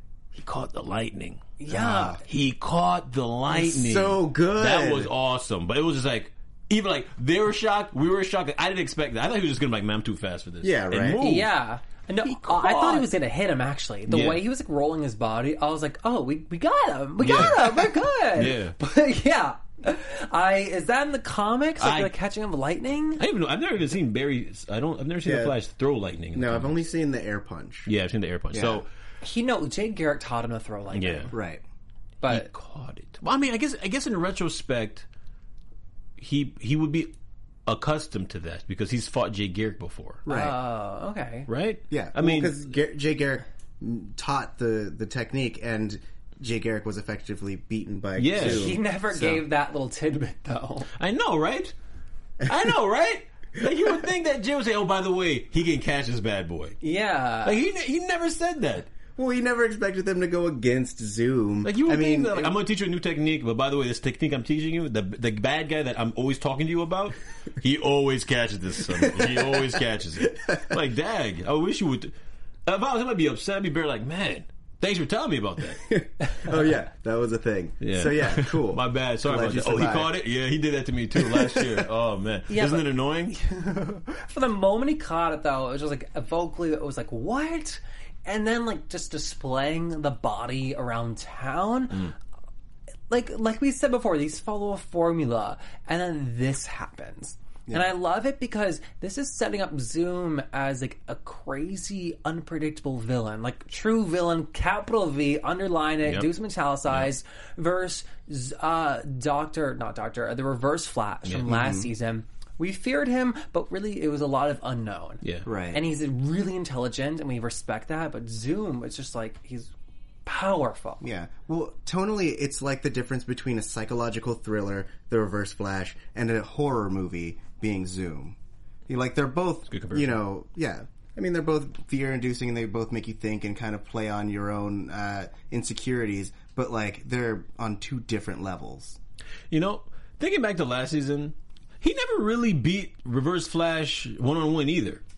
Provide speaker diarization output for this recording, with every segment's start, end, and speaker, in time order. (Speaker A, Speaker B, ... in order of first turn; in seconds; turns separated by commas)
Speaker A: 0.3-1.5, Speaker B: 1.6-2.2, Speaker C: 1.7-2.2, Speaker A: 2.2-11.5, Speaker C: 3.5-5.1, Speaker C: 10.6-11.2, Speaker B: 11.2-23.2, Speaker A: 12.2-13.1, Speaker A: 14.1-14.4, Speaker A: 17.2-18.8, Speaker A: 21.8-22.1, Speaker A: 23.2-26.8, Speaker C: 25.2-25.6, Speaker C: 26.3-27.9, Speaker A: 27.9-28.9, Speaker C: 28.5-28.8, Speaker B: 29.2-31.3, Speaker A: 30.9-31.3, Speaker C: 31.3-31.6, Speaker B: 32.2-32.5, Speaker A: 32.3-35.1, Speaker A: 36.2-37.1, Speaker A: 37.7-40.2, Speaker C: 40.2-40.6, Speaker B: 40.3-41.5, Speaker A: 41.5-42.6, Speaker C: 41.9-49.4, Speaker A: 48.2-48.8, Speaker B: 48.4-50.9, Speaker A: 51.0-51.7, Speaker A: 52.5-56.8, Speaker B: 56.8-57.6, Speaker A: 57.4-58.9, Speaker C: 59.2-62.5, Speaker A: 61.6-72.1, Speaker C: 68.9-70.7, Speaker A: 72.7-75.9, Speaker C: 75.9-80.2, Speaker A: 77.8-83.4, Speaker C: 81.2-81.9, Speaker B: 82.5-92.1, Speaker B: 93.1-119.7, Speaker A: 111.3-111.6, Speaker C: 111.5-111.9, Speaker A: 115.2-115.5, Speaker C: 115.5-115.8, Speaker B: 120.3-121.0, Speaker C: 121.0-128.4, Speaker C: 128.9-139.0, Speaker A: 129.7-130.2, Speaker A: 139.5-145.0